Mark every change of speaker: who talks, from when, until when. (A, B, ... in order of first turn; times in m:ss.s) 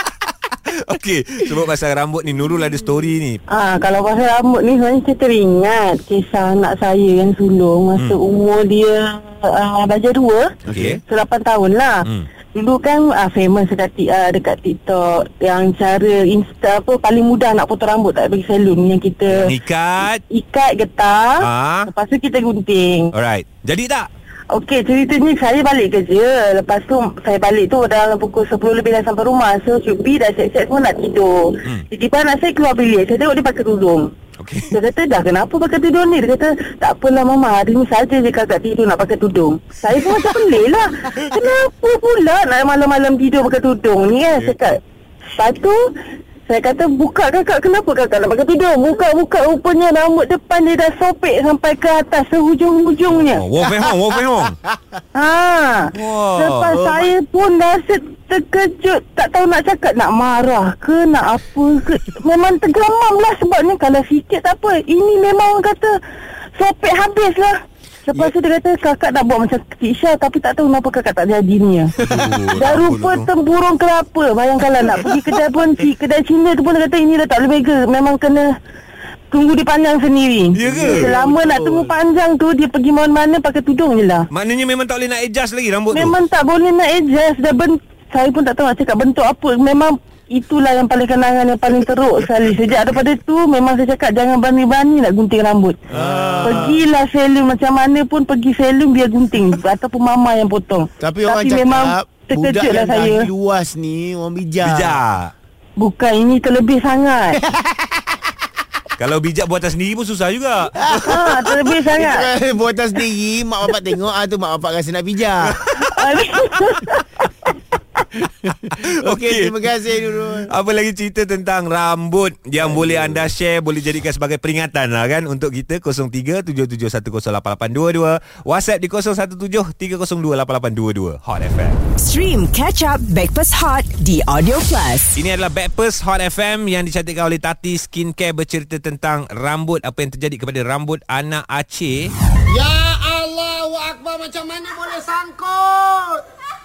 0:00.7-0:03.4 A
0:03.5-0:10.5 B
0:10.7-0:11.0 C
0:10.7-0:11.0 A
0:11.1-0:12.0 B
0:12.6-0:19.5 B
0:19.3-0:20.2 A
0:20.3-0:23.1 B
0:21.4-0:21.9 A
0:23.1-0:24.1 A
0:24.6-0:34.1 B
0:34.4-0:34.8 A
0:34.7-0:44.8 B
0:45.4-0:45.8 B
0:46.5-0:53.4 B
0:53.1-0:54.6 A
0:54.6-0:55.0 C
0:55.2-1:05.9 B
0:55.9-0:56.8 A
0:56.7-0:57.1 C
1:06.6-1:07.5 B
1:08.1-1:11.9 B
1:12.0-1:12.6 C
1:12.0-1:13.3 A
1:12.6-1:18.5 B
1:14.8-1:15.4 A
1:19.3-1:24.2 B
1:20.5-1:21.1 A
1:20.6-1:22.0 C
1:24.3-1:26.2 A
1:25.9-1:35.8 B
1:35.9-1:36.8 A
1:35.9-1:36.8 C
1:36.4-1:43.2 B
1:41.0-1:45.0 C
1:44.6-1:45.3 A
1:45.8-1:47.4 B
1:47.5-1:48.2 C
1:49.0-1:51.5 A
1:50.8-1:55.6 C
1:51.1-1:52.3 B
1:55.5-1:56.6 A
1:56.0-1:57.0 B
1:58.5-2:00.5 C
1:58.6-1:59.5 A
2:00.5-2:11.8 A
2:02.6-2:03.3 C
2:12.0-2:15.2 D
2:15.2-2:22.1 A
2:22.5-2:26.2 E